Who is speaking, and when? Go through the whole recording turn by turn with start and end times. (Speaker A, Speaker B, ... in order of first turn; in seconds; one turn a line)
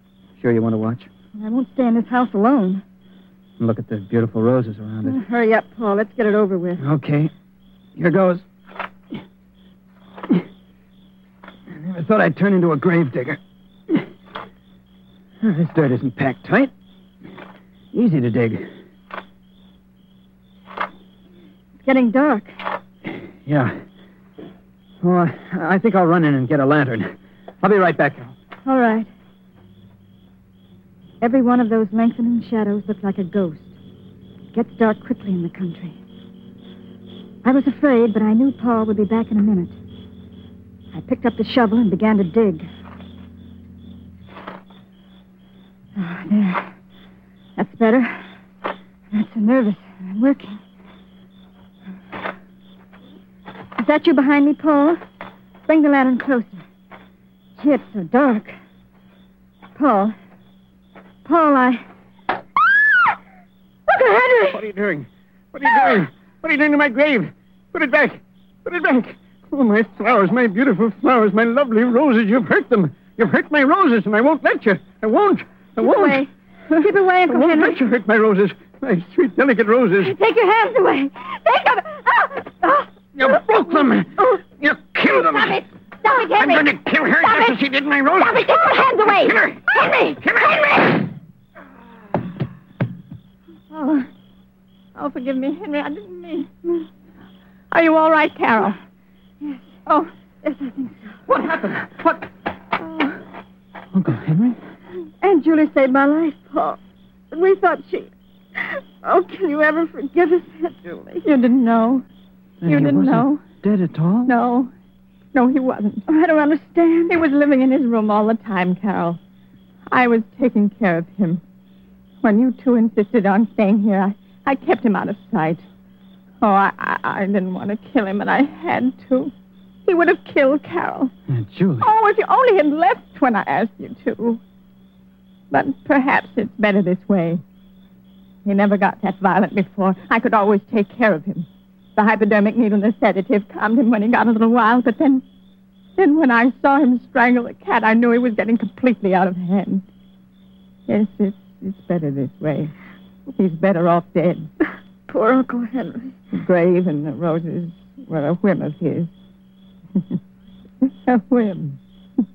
Speaker A: 0.4-1.1
Speaker B: 1.4-2.8
Speaker A: 3.6-5.2
Speaker B: 5.0-6.8
Speaker A: 6.8-7.3
Speaker A: 8.0-8.4
Speaker A: 11.7-14.1
Speaker A: 15.4-16.7
Speaker A: 17.9-18.7
Speaker B: 21.8-22.6
Speaker A: 23.4-23.8
Speaker A: 25.0-28.3
Speaker B: 28.6-29.1
Speaker B: 31.2-33.7
Speaker B: 34.5-36.0
Speaker B: 37.4-39.7
Speaker B: 40.9-42.7
Speaker B: 46.0-46.7
Speaker B: 47.6-48.3
Speaker B: 49.1-50.6
Speaker B: 53.8-55.0
Speaker B: 55.7-56.6
Speaker B: 57.6-58.5
Speaker B: 59.8-60.1
Speaker B: 61.2-61.8
Speaker B: 63.9-64.6
Speaker A: 64.5-80.1
Speaker B: 75.8-77.8
Speaker B: 80.0-82.9
Speaker A: 83.2-85.6
Speaker C: 85.4-86.7
Speaker B: 86.0-86.6
Speaker A: 86.3-88.5
Speaker C: 87.2-87.6
Speaker C: 88.2-90.2
Speaker A: 89.2-89.6
Speaker A: 90.2-90.6
Speaker C: 93.7-94.1
Speaker C: 94.9-96.7
Speaker C: 97.7-98.8
Speaker B: 99.4-99.8
Speaker B: 100.4-101.2
Speaker A: 101.3-102.3
Speaker C: 102.8-103.2
Speaker A: 103.9-104.6
Speaker B: 105.2-106.8
Speaker B: 107.3-111.2
Speaker C: 111.2-112.0
Speaker A: 112.6-114.3
Speaker C: 112.6-113.4
Speaker C: 114.3-114.7
Speaker C: 115.3-116.0
Speaker B: 116.1-117.1
Speaker C: 117.1-119.2
Speaker C: 119.9-121.4
Speaker C: 122.2-125.6
Speaker C: 126.4-129.3
Speaker C: 129.8-131.1
Speaker A: 131.3-131.9
Speaker C: 131.8-134.4
Speaker C: 135.5-137.4
Speaker C: 138.4-145.2
Speaker C: 146.0-149.8
Speaker C: 150.9-152.7
Speaker C: 153.3-154.5
Speaker B: 155.1-156.2
Speaker C: 156.3-159.1
Speaker C: 160.8-161.8